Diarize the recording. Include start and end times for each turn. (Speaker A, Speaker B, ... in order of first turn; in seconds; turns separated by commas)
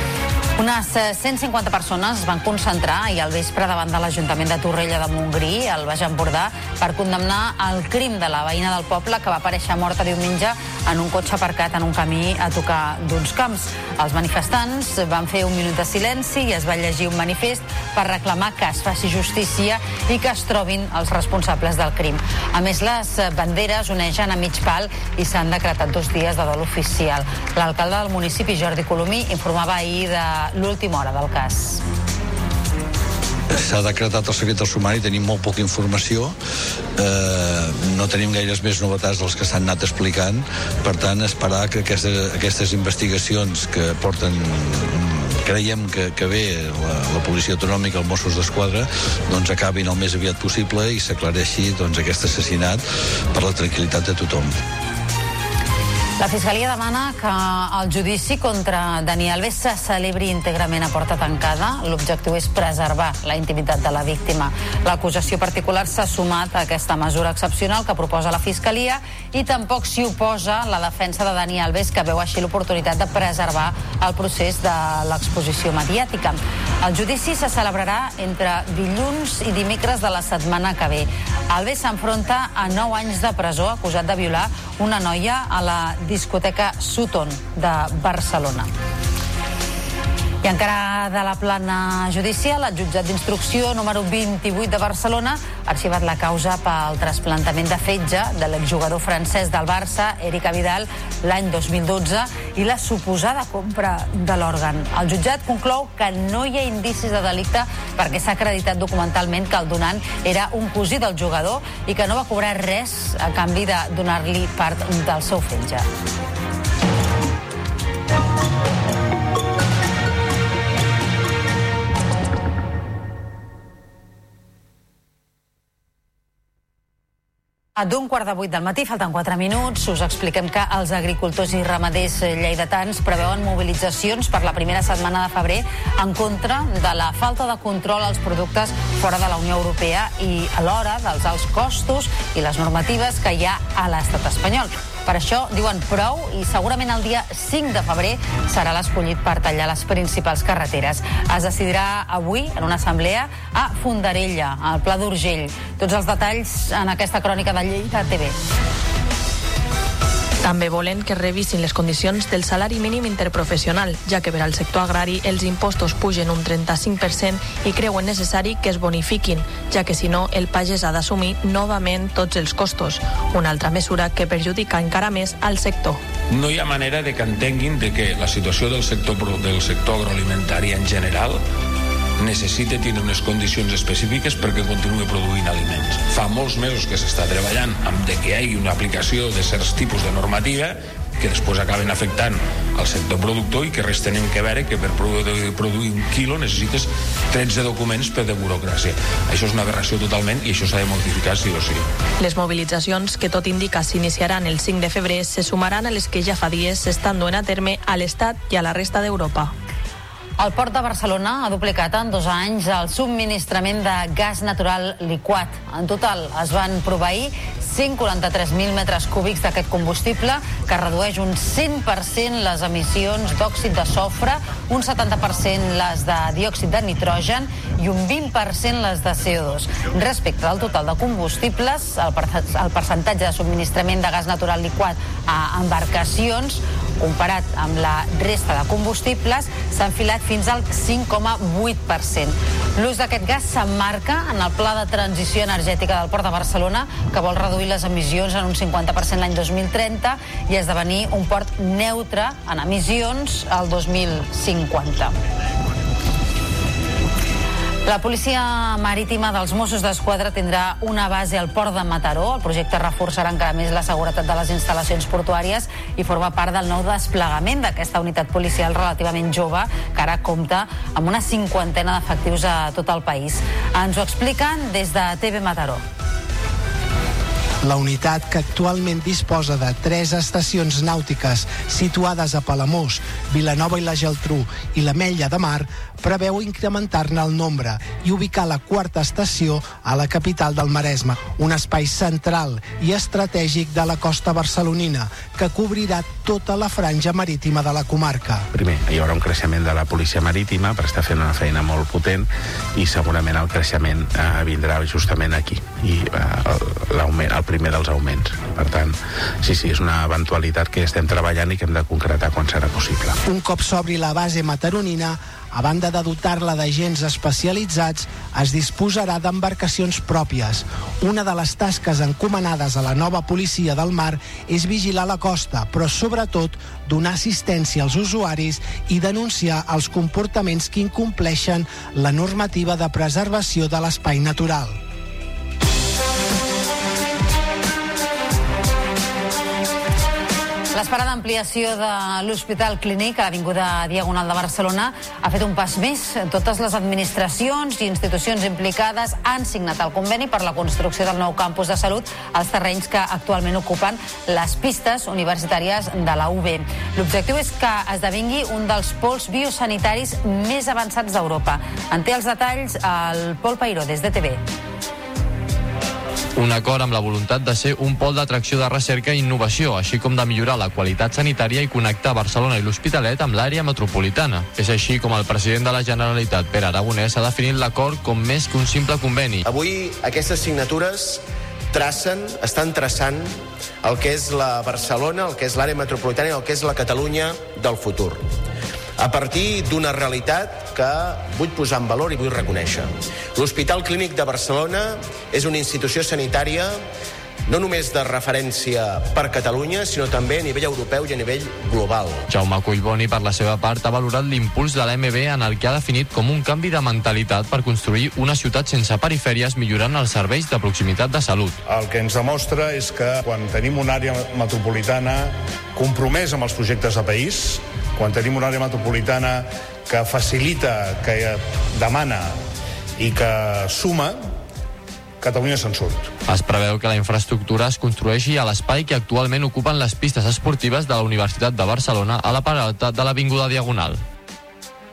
Speaker A: 0.6-31.8, Speaker B: 33.5-36.4, Speaker B: 37.0-54.5, Speaker A: 56.2-88.7, Speaker A: 90.4-115.9, Speaker A: 127.8-158.4, Speaker C: 160.4-176.0, Speaker D: 176.3-181.4, Speaker D: 182.2-201.8, Speaker C: 202.2-209.5, Speaker A: 210.4-255.2, Speaker A: 257.9-275.8, Speaker E: 277.6-298.5, Speaker F: 298.5-313.2, Speaker E: 313.2-334.8, Speaker A: 340.7-364.4, Speaker G: 366.4-379.4, Speaker H: 379.5-381.2, Speaker H: 381.7-388.3, Speaker H: 389.0-396.8, Speaker H: 397.5-402.2, Speaker G: 402.3-411.6, Speaker I: 411.7-422.4, Speaker I: 423.0-424.3, Speaker I: 425.2-426.1, Speaker G: 426.3-434.0